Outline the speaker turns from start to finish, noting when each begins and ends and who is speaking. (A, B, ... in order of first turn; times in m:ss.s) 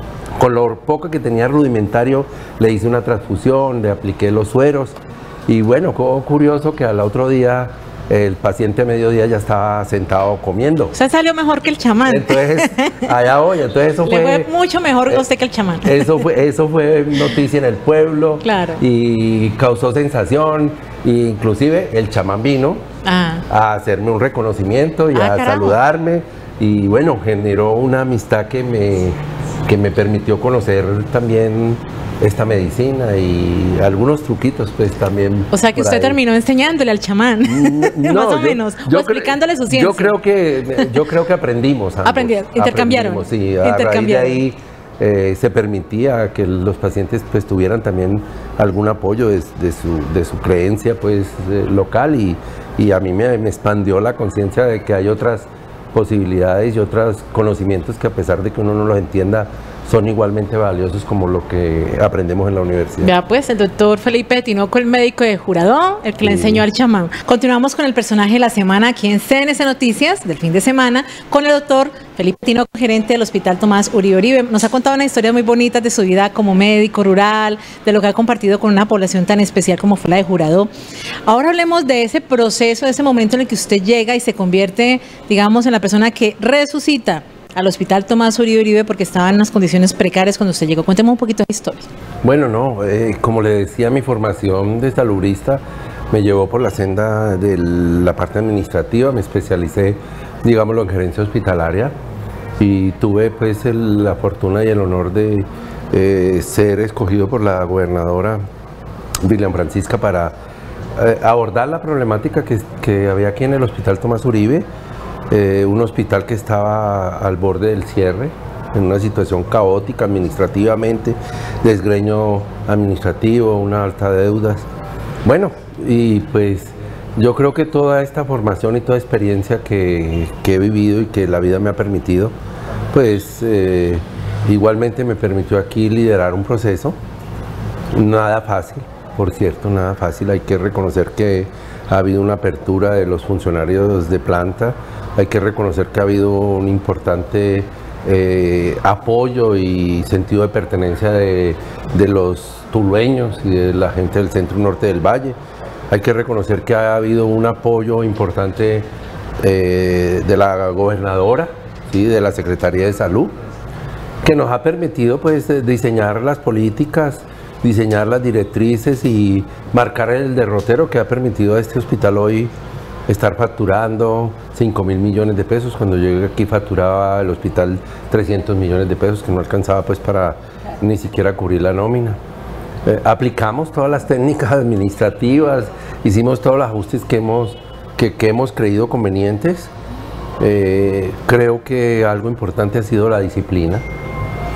0:00.4-0:11.0 A
0:10.9-0:13.0 B
0:12.1-0:14.5 A
0:14.0-0:16.2 B
0:15.8-0:22.8 A
0:18.4-0:18.8 B
0:23.0-0:23.4 B
0:23.5-0:36.2 A
0:25.1-0:25.8 B
0:35.5-0:40.2 B
0:37.4-1:03.1 A
0:42.0-0:44.4 B
1:03.0-1:20.7 B
1:06.2-1:06.6 A
1:21.3-1:31.9 B
1:32.2-1:42.0 A
1:42.6-1:48.4 A
1:49.2-1:50.4 A
1:51.0-1:54.7 A
1:55.3-2:04.7 A
2:05.2-2:12.4 A
2:12.9-2:17.0 A
2:17.9-2:35.4 A
2:35.9-2:38.9 A
2:39.4-2:43.4 A
2:44.2-2:52.5 A
2:53.1-3:02.2 A
3:02.8-3:09.7 A
3:10.4-3:13.8 A